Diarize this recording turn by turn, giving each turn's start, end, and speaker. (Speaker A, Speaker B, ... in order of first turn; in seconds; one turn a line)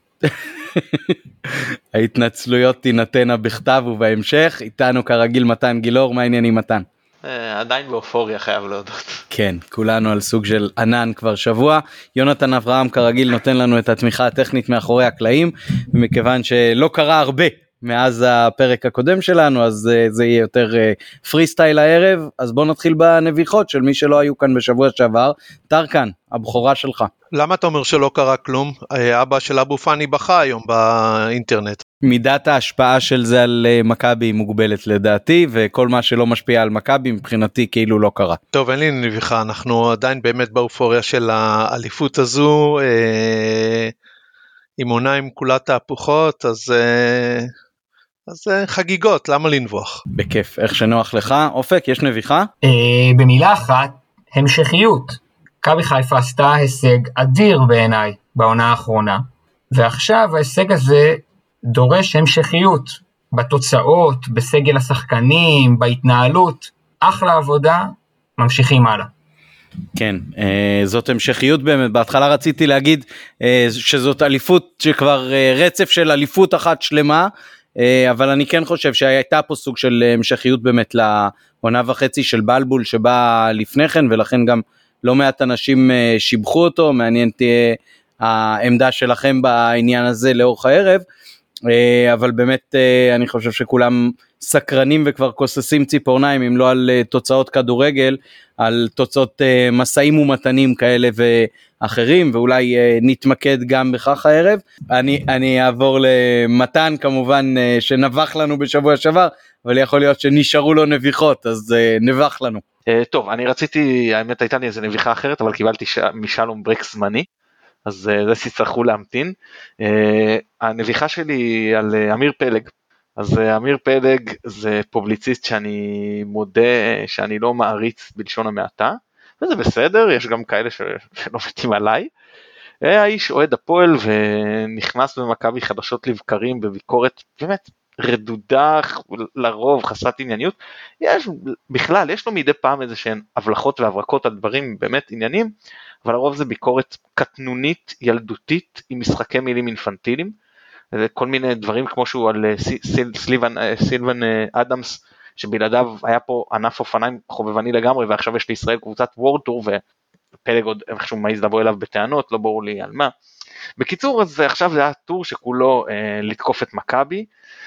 Speaker A: 0.3-6.8
Speaker B: 7.2-9.2
Speaker A: 9.3-27.1
Speaker C: 27.3-31.8
Speaker A: 32.0-38.4
Speaker C: 38.5-43.9
Speaker C: 44.8-47.5
Speaker C: 48.3-50.0
Speaker A: 50.2-52.5
Speaker D: 52.6-69.1
Speaker A: 70.0-91.0
Speaker A: 91.7-112.6
Speaker B: 112.9-117.3
Speaker B: 117.9-132.1
Speaker B: 132.8-145.5
Speaker B: 146.1-150.3
Speaker B: 150.9-159.8
Speaker B: 160.5-163.1
Speaker B: 163.8-167.3